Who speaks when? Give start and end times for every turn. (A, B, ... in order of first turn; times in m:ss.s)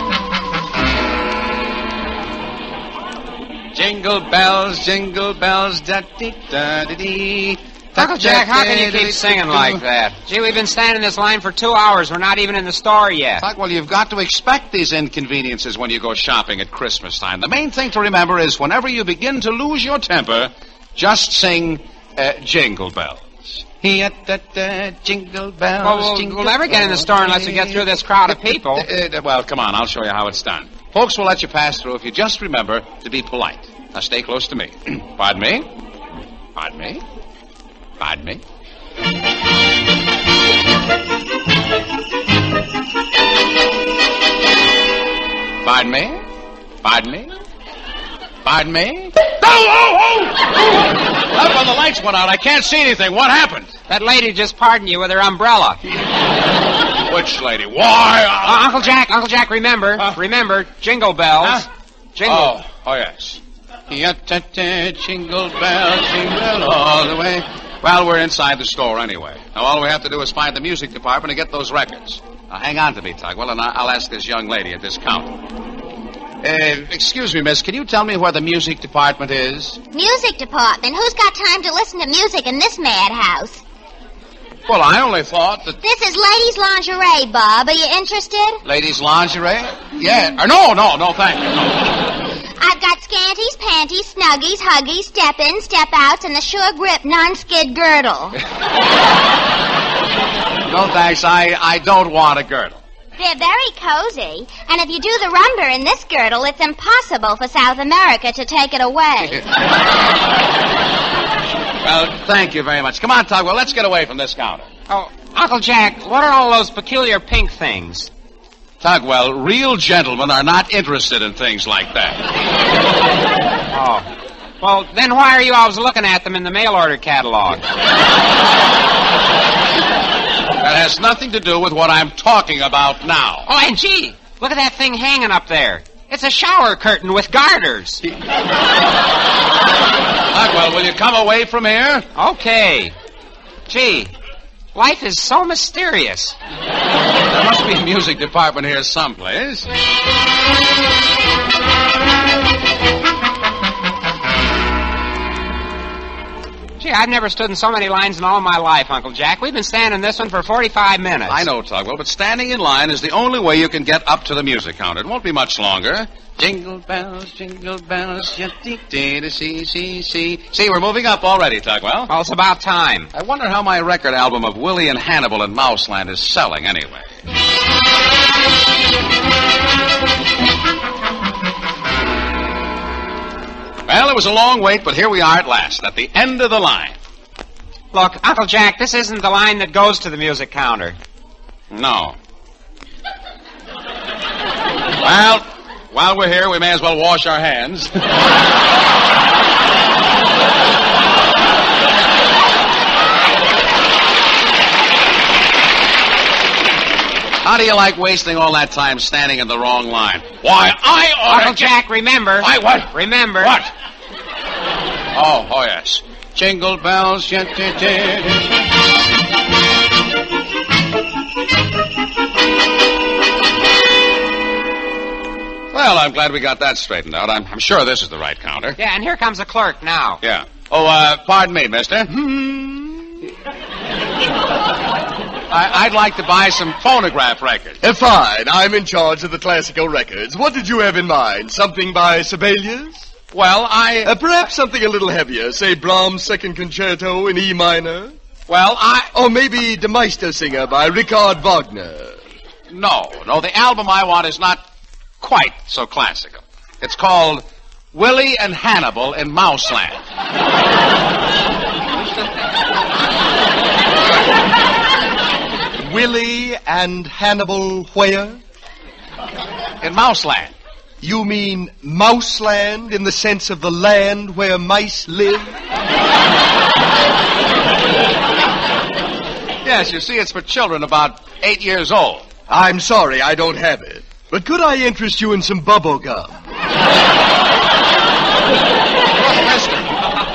0:03.7-0:09.8 A
0:08.0-0:13.4 B
0:13.4-0:35.7 A
0:25.8-0:28.9 B
0:36.6-0:37.0 A
0:38.0-0:38.4 A
0:45.6-0:46.2 A
0:46.8-0:47.4 A
0:48.4-0:50.5 A
0:51.2-0:53.8 A
0:53.9-0:55.8 B
0:57.0-0:58.7 A
0:58.4-1:02.5 B
1:02.2-1:15.4 A
1:16.4-1:19.8 A
1:19.9-1:23.6 C
1:24.7-1:25.8 A
1:25.8-1:28.6 C
1:28.6-1:31.9 A
1:32.6-1:38.4 C
1:40.7-1:42.8 A
1:43.2-1:49.4 C
1:51.8-1:54.7 A
1:54.9-1:58.1 B
1:58.8-2:02.2 A
2:03.7-2:04.1 B
2:04.6-2:07.6 B
2:10.6-2:13.5 A
2:13.5-2:18.0 B
2:20.3-2:22.1 A
2:22.2-2:22.9 B
2:23.7-2:24.1 B
2:24.7-2:26.4 B
2:27.3-2:29.7 A
2:36.8-2:41.5 B
2:41.3-2:52.1 A
2:52.1-2:53.1 B
2:53.1-2:57.1 A
3:03.9-3:07.0 A
3:07.9-3:11.0 B
3:11.7-3:12.2 A
3:15.0-3:18.1 A
3:27.4-3:31.7 A
3:31.3-3:33.6 B
3:32.4-3:33.7 A
3:35.1-3:38.5 A
3:45.7-3:48.8 A
3:48.8-3:50.2 B
3:50.2-3:53.1 A
3:55.5-3:57.8 A
3:57.8-4:03.1 D
4:03.3-4:04.2 A
4:04.0-4:08.1 D
4:08.5-4:09.1 A
4:09.1-4:12.2 D
4:12.7-4:14.6 A
4:15.2-4:20.0 A
4:25.8-4:28.4 D
4:29.8-4:30.6 A
4:31.0-4:35.6 D
4:39.6-4:42.3 A
4:42.5-4:46.4 D
4:49.2-4:50.0 A